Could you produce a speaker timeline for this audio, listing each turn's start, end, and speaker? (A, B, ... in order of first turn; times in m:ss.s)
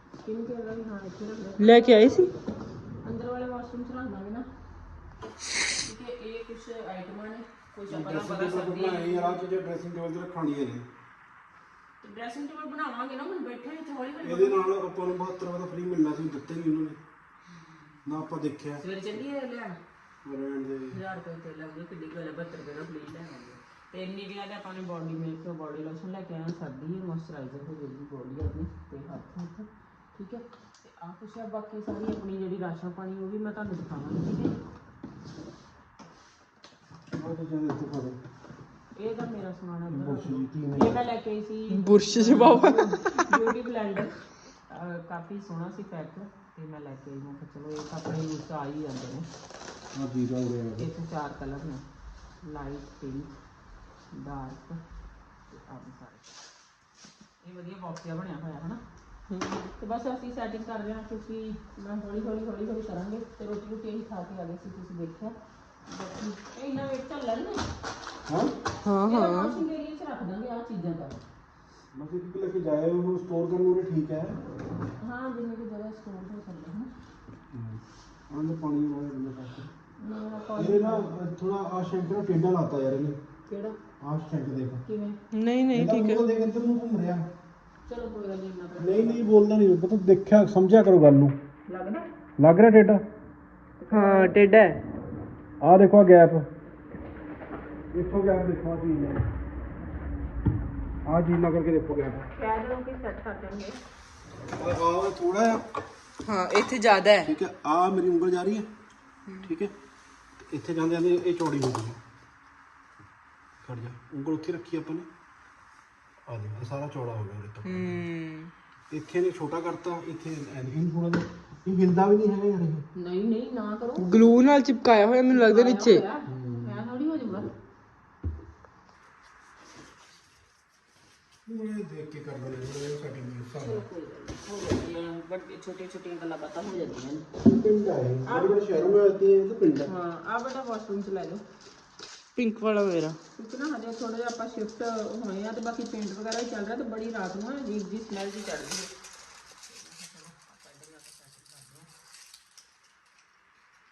0:00.2-0:02.3 A
0:01.6-0:02.3 B
0:03.0-0:04.5 A
0:05.8-0:09.4 A
0:07.9-0:10.9 C
0:12.0-0:14.6 A
0:14.2-0:17.0 C
0:17.5-0:18.0 A
0:18.0-0:18.8 C
0:18.8-0:19.8 A
0:20.2-0:21.0 C
0:20.9-0:34.6 A
0:37.1-0:38.2 C
0:39.0-0:44.2 A
0:39.9-0:41.0 C
0:41.7-0:43.3 B
0:44.7-0:49.3 A
0:49.9-0:50.9 C
0:50.8-0:51.8 A
0:52.4-0:53.3 A
0:54.1-0:54.8 A
0:55.5-0:56.3 A
0:57.4-0:58.8 A
0:59.3-0:59.7 B
0:59.8-1:05.4 A
1:05.9-1:07.6 A
1:08.3-1:08.5 C
1:08.8-1:09.6 B
1:09.0-1:11.2 A
1:11.9-1:14.4 C
1:15.0-1:16.9 A
1:17.5-1:19.7 C
1:20.0-1:21.1 A
1:20.6-1:23.2 C
1:23.5-1:23.8 A
1:24.0-1:24.8 C
1:24.8-1:25.2 A
1:25.3-1:26.2 B
1:25.7-1:27.3 C
1:27.9-1:29.3 A
1:28.8-1:31.4 C
1:31.7-1:32.1 A
1:32.4-1:33.0 C
1:33.8-1:34.4 A
1:33.9-1:34.8 B
1:35.6-1:36.5 C
1:37.9-1:39.2 C
1:41.0-1:42.3 C
1:42.4-1:43.8 A
1:44.5-1:45.6 C
1:46.2-1:47.3 B
1:47.2-1:48.7 C
1:49.4-1:49.7 C
1:50.4-1:52.0 C
1:53.6-1:55.1 C
1:56.2-1:58.0 C
1:57.6-1:58.5 B
1:58.9-2:02.8 C
2:03.0-2:04.1 A
2:04.0-2:06.0 B
2:05.3-2:07.5 A
2:06.3-2:06.8 C
2:11.4-2:13.8 C
2:13.5-2:17.2 A
2:17.4-2:19.9 C
2:18.2-2:18.9 A
2:19.8-2:21.4 A
2:22.4-2:23.2 B
2:23.4-2:28.9 A
2:29.6-2:31.9 A